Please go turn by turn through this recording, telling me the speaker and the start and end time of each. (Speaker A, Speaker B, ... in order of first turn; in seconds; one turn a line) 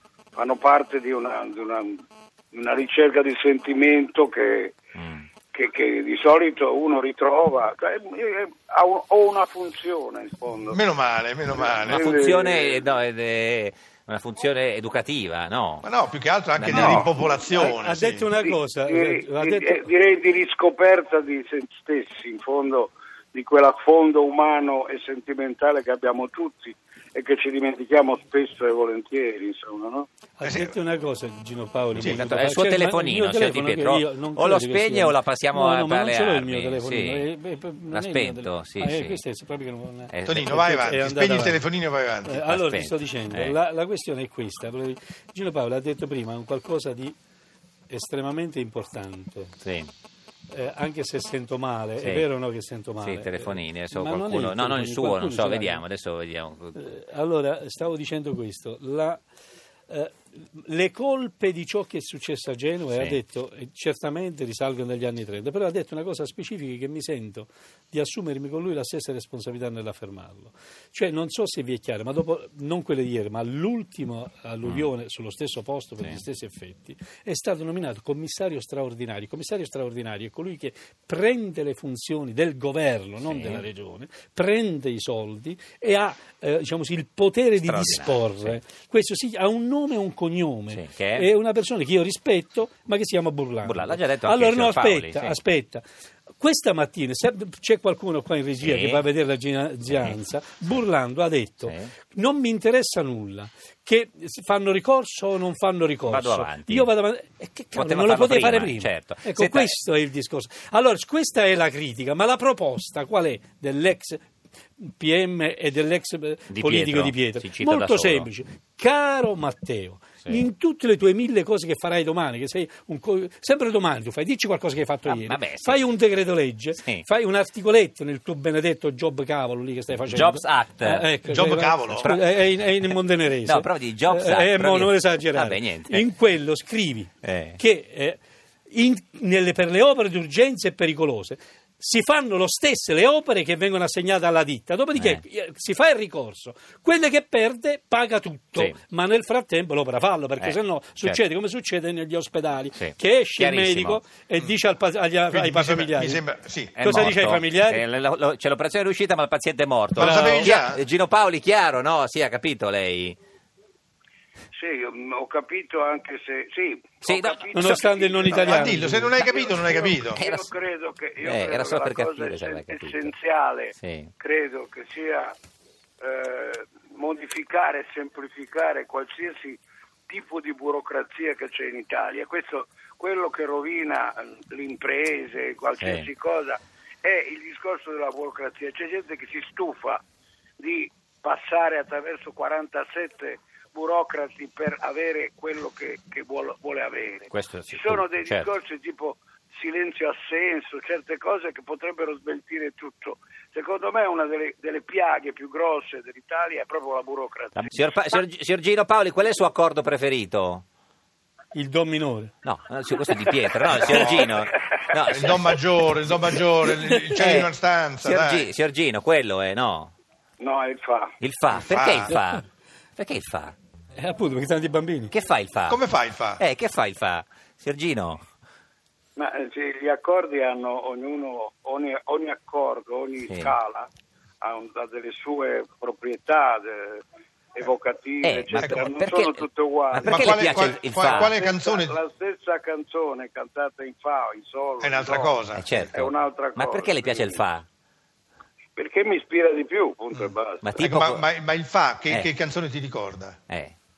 Speaker A: 0.4-4.7
Speaker B: 5.0-5.3
Speaker A: 5.5-10.8
Speaker C: 10.7-12.1
Speaker A: 11.5-12.8
Speaker B: 11.8-15.9
Speaker C: 15.8-18.3
Speaker B: 16.6-17.1
Speaker D: 16.7-19.9
Speaker A: 18.4-30.1
Speaker D: 30.4-41.6
Speaker C: 30.4-30.8
Speaker B: 31.9-37.3
Speaker B: 37.9-39.2
Speaker B: 40.1-40.5
Speaker C: 40.3-42.4
Speaker D: 42.2-47.2
Speaker B: 42.4-43.6
Speaker D: 47.9-49.6
Speaker B: 49.6-49.9
Speaker D: 50.5-55.8
Speaker B: 52.0-52.3
Speaker B: 53.0-56.8
Speaker D: 56.8-59.2
Speaker D: 59.9-95.8
Speaker B: 62.9-63.2
Speaker B: 74.6-74.9
Speaker B: 83.2-83.6
Speaker B: 87.6-88.6
Speaker B: 90.7-91.3
Speaker B: 93.6-95.4
Speaker D: 96.4-114.2
Speaker B: 98.6-99.0
Speaker B: 99.9-100.2
Speaker B: 101.6-101.9
Speaker B: 106.1-106.9
Speaker B: 107.8-109.8
Speaker D: 114.8-156.2
Speaker B: 116.5-118.3
Speaker B: 125.1-125.8
Speaker B: 126.8-127.0
Speaker B: 130.1-131.1
Speaker C: 131.3-132.1
Speaker B: 131.9-132.3
Speaker B: 133.4-136.1
Speaker B: 137.2-137.6
Speaker B: 145.0-145.2
Speaker B: 150.4-151.2
Speaker B: 152.7-154.0
Speaker C: 155.3-157.2
Speaker B: 156.8-163.2
Speaker D: 156.8-157.8
Speaker C: 160.0-160.8
Speaker D: 160.0-160.5
Speaker A: 164.5-175.3
Speaker B: 167.0-167.8
Speaker D: 167.5-169.2
Speaker C: 168.3-170.2
Speaker B: 170.2-170.5
Speaker B: 171.2-173.1
Speaker B: 173.8-174.1
Speaker A: 176.0-190.0
Speaker B: 185.8-186.1
Speaker A: 190.6-208.2
Speaker B: 197.3-198.5
Speaker B: 207.6-210.6
Speaker D: 211.5-212.3
Speaker B: 212.4-215.5
Speaker C: 213.8-214.3
Speaker A: 214.0-214.3
Speaker C: 215.1-218.5
Speaker B: 217.2-217.5
Speaker B: 218.0-219.9
Speaker A: 220.4-221.1
Speaker B: 221.2-222.4
Speaker C: 221.6-222.2
Speaker B: 223.0-223.5
Speaker D: 223.9-225.1
Speaker B: 225.1-225.8
Speaker C: 225.7-226.4
Speaker B: 226.4-228.2
Speaker A: 229.2-233.9
Speaker B: 233.3-233.6
Speaker A: 234.4-237.0
Speaker A: 237.6-245.4
Speaker B: 238.2-241.3
Speaker C: 238.6-238.9
Speaker C: 240.0-242.0
Speaker C: 244.8-245.6
Speaker B: 245.5-247.7
Speaker A: 245.9-247.4
Speaker A: 248.8-250.7
Speaker B: 250.6-251.2
Speaker C: 250.8-253.4
Speaker B: 253.5-253.7